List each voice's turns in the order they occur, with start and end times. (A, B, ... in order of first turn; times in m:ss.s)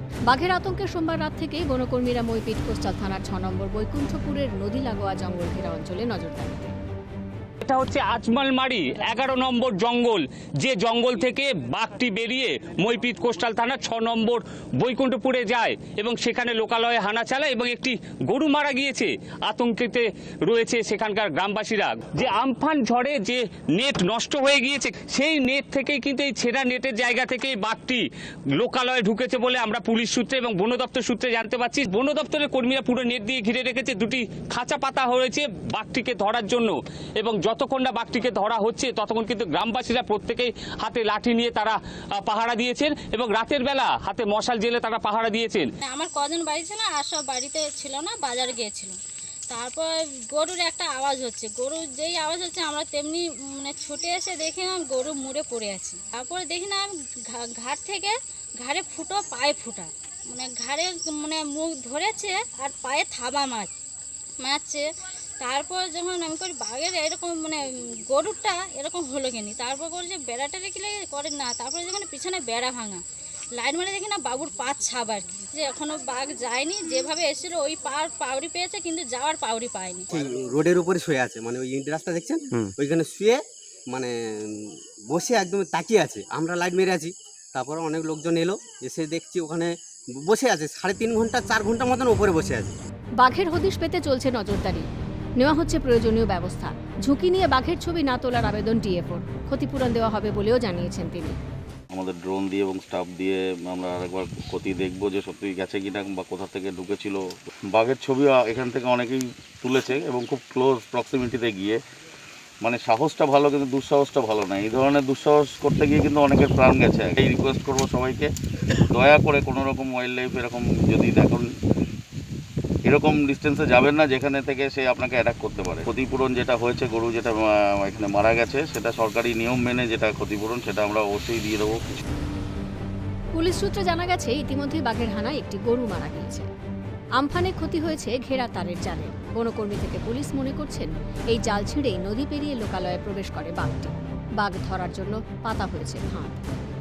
0:00.3-0:06.7 A
0:07.6-0:28.0 B
0:28.6-0:45.7 B
0:45.8-0:49.0 C
0:49.5-1:03.7 C
1:04.4-1:04.9 C
1:05.4-1:13.0 C
1:13.6-1:20.1 C
1:20.1-1:29.7 D
1:30.3-1:32.8 D
1:33.2-1:34.9 A
1:35.4-1:41.4 A
1:41.9-1:51.8 E
1:52.6-1:58.3 E
1:58.9-2:01.5 E
2:02.8-2:12.0 E
2:13.4-2:16.5 A
2:17.2-2:26.4 A